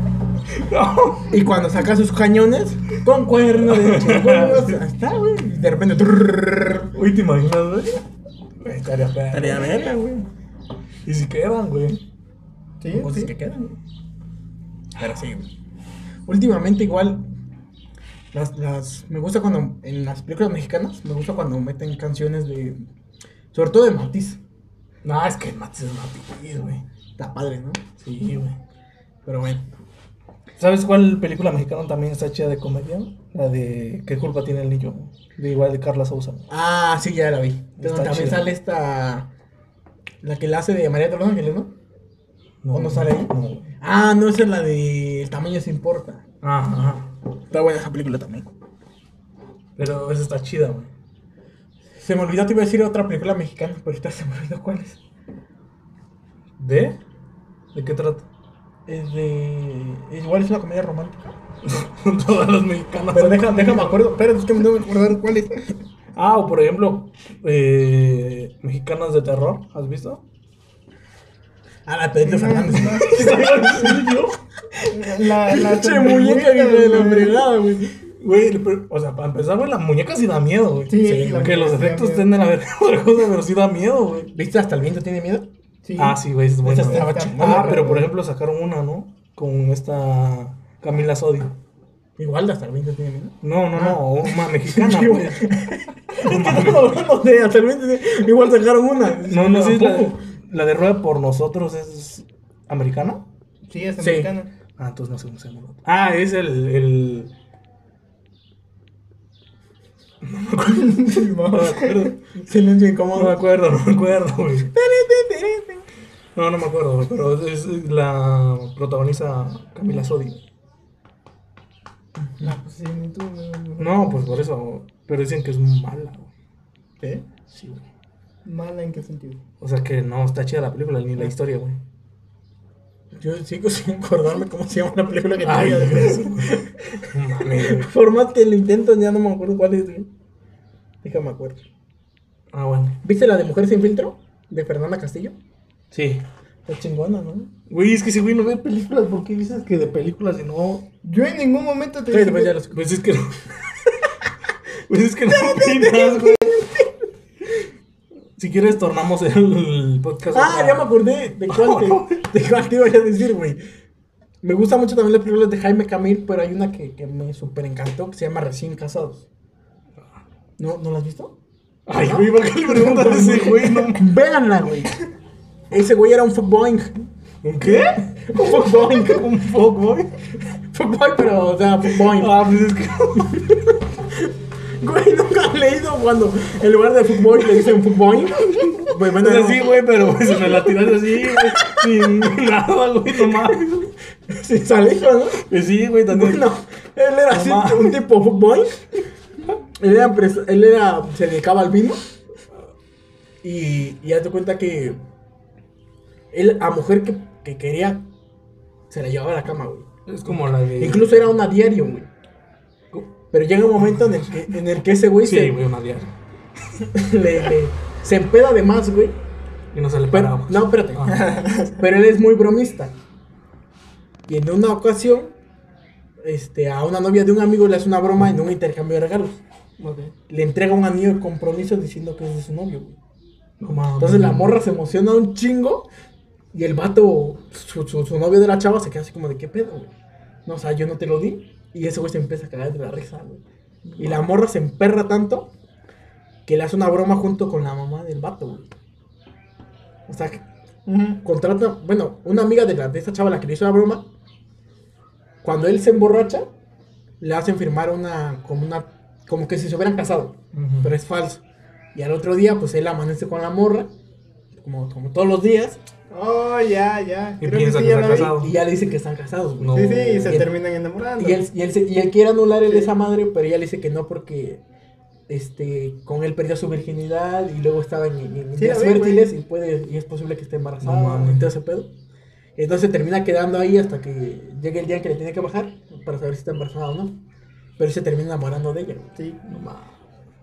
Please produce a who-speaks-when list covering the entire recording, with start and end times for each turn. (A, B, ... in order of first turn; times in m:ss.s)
0:00.5-0:01.4 A
0:01.3-0:07.0 B
0:03.6-0:04.8 A
0:06.9-0:08.0 A
0:08.6-0:09.8 A
0:09.3-0:10.3 B
0:11.0-0:12.0 A
0:12.8-0:13.3 C
0:12.9-0:13.8 B
0:15.0-0:15.5 B
0:16.3-0:17.2 B
0:18.3-0:22.8 B
0:23.5-0:24.4 B
0:25.0-0:26.8 A
0:27.2-0:27.8 B
0:28.0-0:28.6 A
0:29.3-0:29.8 B
0:30.6-0:36.5 A
0:36.5-0:39.3 B
0:37.8-0:38.5 A
0:40.2-0:41.7 B
0:42.6-0:43.7 A
0:42.7-0:46.2 B
0:46.4-0:47.1 A
0:47.5-0:48.5 B
0:49.8-0:50.9 A
0:52.0-0:55.0 B
0:56.6-0:57.0 A
0:57.7-0:58.3 A
0:58.9-1:01.3 B
1:01.6-1:03.9 A
1:03.1-1:05.4 B
1:04.7-1:05.6 C
1:06.2-1:10.2 A
1:11.9-1:14.1 B
1:12.2-1:13.4 C
1:13.0-1:14.4 A
1:14.8-1:18.0 B
1:14.9-1:17.5 C
1:18.2-1:24.3 A
1:20.9-1:22.3 C
1:21.0-1:21.3 B
1:24.3-1:25.5 B
1:25.8-1:28.1 C
1:26.0-1:31.6 A
1:26.6-1:28.0 B
1:32.2-1:40.2 B
1:33.4-1:35.5 A
1:36.2-1:37.0 A
1:39.2-1:43.2 A
1:43.7-1:44.5 C
1:44.0-1:44.3 B
1:44.8-1:47.3 A
1:50.2-1:52.1 A
1:50.7-1:52.1 C
1:51.5-1:53.4 B
1:53.2-1:54.7 A
1:54.8-1:55.8 C
1:56.4-2:00.4 A
2:02.2-2:02.5 B
2:02.4-2:04.3 C
2:03.8-2:06.3 A
2:07.0-2:07.3 B
2:07.5-2:07.8 A
2:08.4-2:09.4 C
2:09.6-2:11.8 A
2:13.1-2:20.1 B
2:15.4-2:17.9 A
2:21.0-2:21.6 B
2:22.5-2:23.0 A
2:23.0-2:25.4 B
2:25.9-2:26.2 A
2:26.7-2:27.5 B
2:27.7-2:30.9 A
2:31.0-2:32.6 C
2:32.1-2:32.8 B
2:32.7-2:34.1 A
2:34.9-2:36.6 A
2:35.5-2:36.7 B
2:38.4-2:40.9 A
2:40.3-2:43.6 B
2:41.5-2:42.2 A
2:44.4-2:49.2 B
2:50.6-2:51.4 B
2:51.9-2:54.1 A
2:51.9-2:54.9 B
2:55.7-2:57.1 B
2:57.4-3:00.1 A
2:57.7-2:59.3 B
3:00.7-3:02.4 B
3:01.9-3:03.6 A
3:04.8-3:11.9 B
3:08.8-3:13.9 A
3:14.3-3:15.5 B
3:15.5-3:16.5 A
3:16.1-3:18.8 B
3:17.3-3:18.0 A
3:19.8-3:22.0 B
3:23.4-3:25.0 B
3:26.3-3:28.1 B
3:28.9-3:32.1 B
3:30.1-3:31.2 A
3:33.3-3:35.6 B
3:35.2-3:36.1 A
3:36.9-3:39.2 B
3:39.7-3:41.2 A
3:40.1-3:42.9 B
3:44.3-3:45.3 B
3:46.2-3:49.4 B
3:49.8-3:50.1 C
3:50.3-3:53.0 B
3:53.6-3:54.5 A
3:54.0-3:55.9 B
3:56.5-3:59.9 B
4:00.5-4:03.4 B
4:03.9-4:04.2 A
4:04.0-4:05.5 B
4:06.5-4:08.7 B
4:10.1-4:10.4 B
4:10.9-4:11.2 C
4:11.2-4:14.1 B
4:15.4-4:16.5 B
4:17.2-4:21.4 B
4:20.5-4:20.9 A
4:22.0-4:23.9 B
4:24.5-4:25.8 B
4:26.1-4:28.4 C
4:27.4-4:28.5 A
4:28.2-4:30.5 B
4:29.6-4:30.5 A
4:29.7-4:31.4 C
4:31.2-4:34.6 B
4:32.6-4:32.9 C
4:35.3-4:41.9 B
4:38.6-4:39.3 C
4:40.8-4:41.5 A
4:42.6-4:47.2 B
4:47.8-4:49.1 B
4:49.5-4:49.9 A